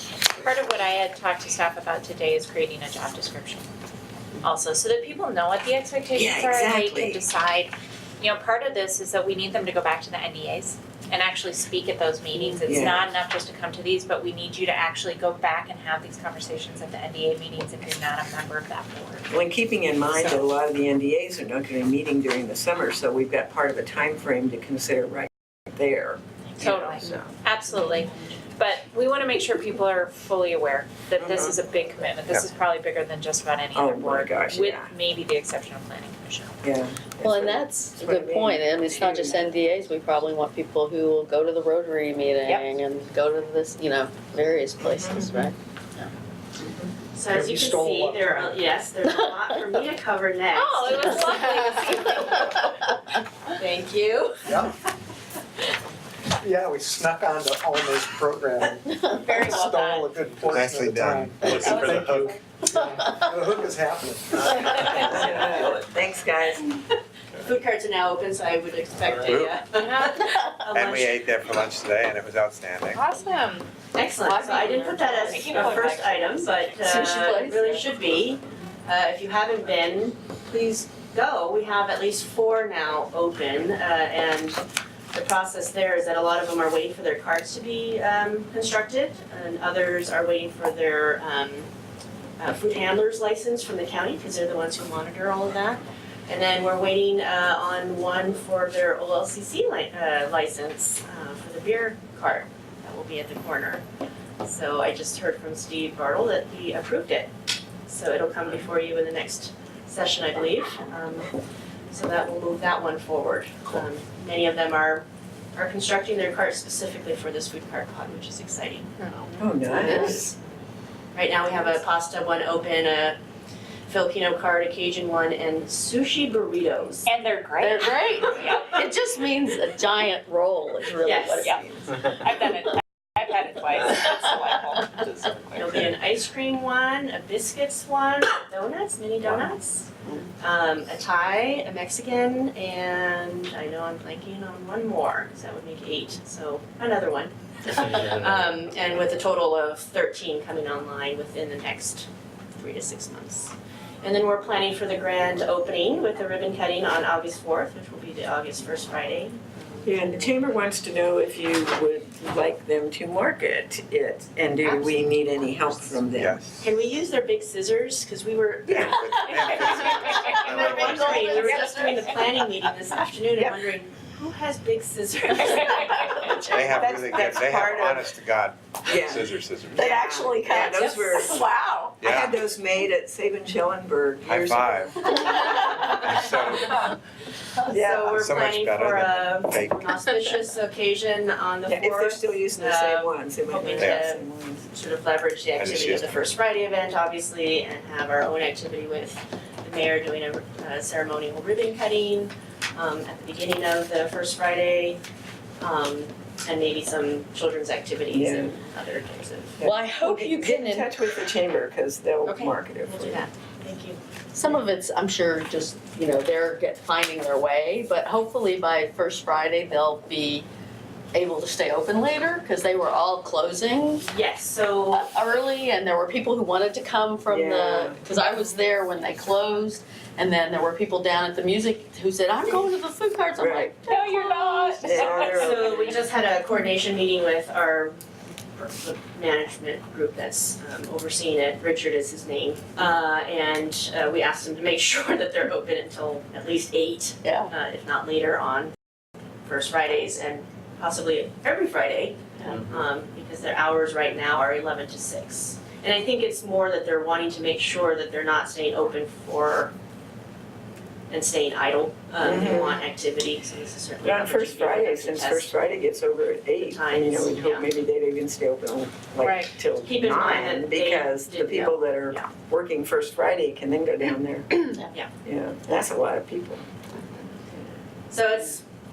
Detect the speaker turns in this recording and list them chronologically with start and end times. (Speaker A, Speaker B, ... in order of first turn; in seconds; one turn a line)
Speaker A: 0.3-3.7
Speaker A: 4.4-19.3
Speaker B: 6.2-7.2
Speaker B: 12.7-13.1
Speaker B: 19.3-27.4
Speaker A: 20.1-20.5
Speaker A: 26.5-36.6
Speaker B: 31.2-31.6
Speaker B: 33.7-34.9
Speaker B: 36.6-39.5
Speaker C: 37.2-46.1
Speaker A: 42.5-42.8
Speaker B: 44.8-45.5
Speaker B: 46.6-46.9
Speaker D: 47.1-52.9
Speaker E: 47.3-48.6
Speaker C: 49.1-49.5
Speaker A: 50.5-52.5
Speaker C: 51.2-51.8
Speaker C: 52.4-52.8
Speaker D: 53.5-54.7
Speaker E: 54.5-54.8
Speaker E: 56.4-65.1
Speaker C: 58.9-59.7
Speaker A: 59.2-60.1
Speaker F: 60.5-62.4
Speaker C: 62.7-63.2
Speaker B: 64.4-66.7
Speaker D: 67.4-71.2
Speaker F: 69.1-69.6
Speaker A: 69.8-70.1
Speaker F: 70.7-73.0
Speaker A: 72.9-77.0
Speaker D: 73.9-84.6
Speaker C: 76.8-77.8
Speaker D: 85.1-91.7
Speaker D: 92.4-103.8
Speaker D: 104.4-107.3
Speaker D: 107.9-111.3
Speaker D: 111.9-119.2
Speaker B: 119.4-120.3
Speaker D: 119.7-120.3
Speaker C: 119.7-120.3
Speaker D: 121.2-123.2
Speaker D: 123.9-127.1
Speaker A: 127.1-128.8
Speaker C: 127.6-131.9
Speaker D: 131.0-131.6
Speaker A: 131.4-135.8
Speaker D: 135.6-152.1
Speaker D: 152.6-160.3
Speaker B: 159.8-166.4
Speaker D: 164.6-166.0
Speaker F: 166.1-166.6
Speaker D: 166.6-177.0
Speaker F: 168.7-171.3
Speaker C: 170.0-172.3
Speaker A: 170.1-170.4
Speaker A: 171.3-172.3
Speaker B: 173.3-173.6
Speaker A: 175.4-176.3
Speaker F: 176.4-180.0
Speaker B: 176.6-178.1
Speaker B: 178.8-185.9
Speaker C: 179.8-181.9
Speaker F: 182.0-182.4
Speaker F: 184.2-185.0
Speaker C: 185.2-185.5
Speaker F: 185.8-186.9
Speaker B: 187.7-188.2
Speaker D: 187.7-205.0
Speaker F: 188.0-189.9
Speaker B: 191.7-194.7
Speaker F: 193.8-194.1
Speaker F: 195.6-196.2
Speaker D: 205.6-209.6
Speaker B: 208.1-208.6
Speaker B: 209.6-213.3
Speaker C: 209.6-211.0
Speaker D: 212.2-214.0
Speaker C: 214.3-220.4
Speaker C: 221.1-224.1
Speaker D: 224.0-225.1
Speaker C: 224.9-235.1
Speaker B: 227.3-228.0
Speaker B: 233.4-233.8
Speaker A: 233.9-235.9
Speaker B: 234.8-235.9
Speaker D: 235.0-237.9
Speaker D: 238.6-248.7
Speaker C: 247.2-247.5
Speaker D: 249.4-259.7
Speaker D: 261.1-265.6
Speaker B: 262.2-262.9
Speaker B: 264.0-274.6
Speaker D: 266.6-267.7
Speaker D: 269.2-272.3
Speaker C: 274.6-274.9
Speaker B: 275.2-276.6
Speaker D: 278.1-278.6